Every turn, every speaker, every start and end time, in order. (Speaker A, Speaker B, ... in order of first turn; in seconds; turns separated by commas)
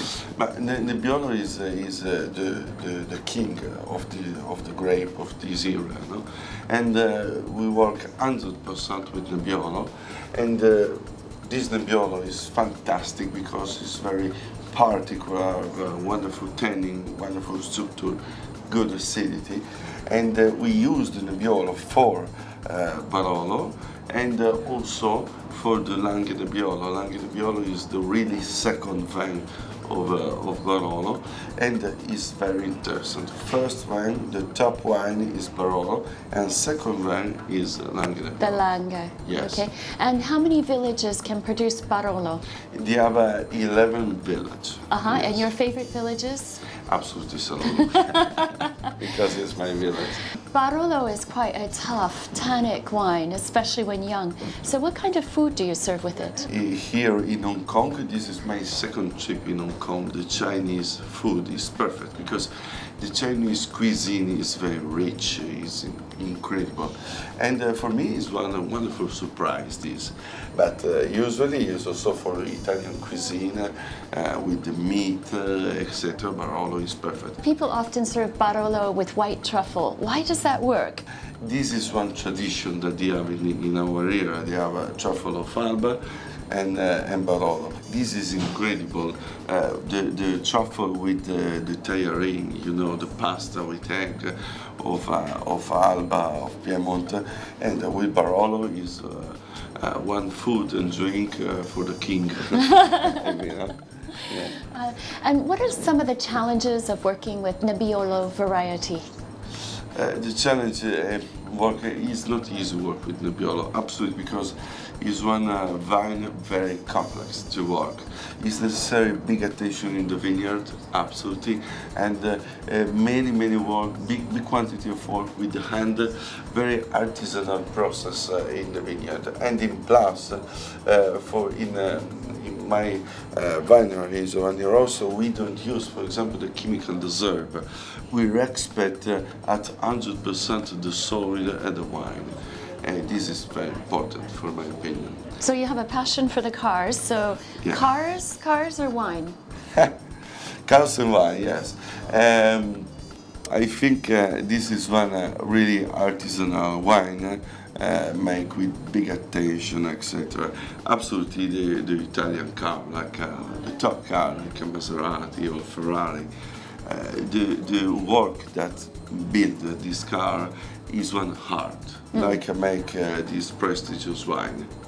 Speaker A: 0.3-38.7, Speaker B: 38.4-42.4, Speaker A: 39.2-39.7, Speaker A: 42.7-45.5, Speaker B: 44.9-46.7, Speaker A: 46.9-50.2, Speaker B: 47.8-48.7, Speaker B: 50.5-56.5, Speaker A: 56.5-77.4, Speaker B: 77.4-81.0, Speaker A: 81.4-104.5, Speaker B: 102.8-103.2, Speaker B: 104.3-109.0, Speaker A: 109.9-145.2, Speaker B: 145.4-149.3, Speaker A: 147.6-147.9, Speaker A: 150.7-152.9, Speaker A: 153.5-166.3, Speaker A: 166.8-174.7, Speaker B: 172.1-172.4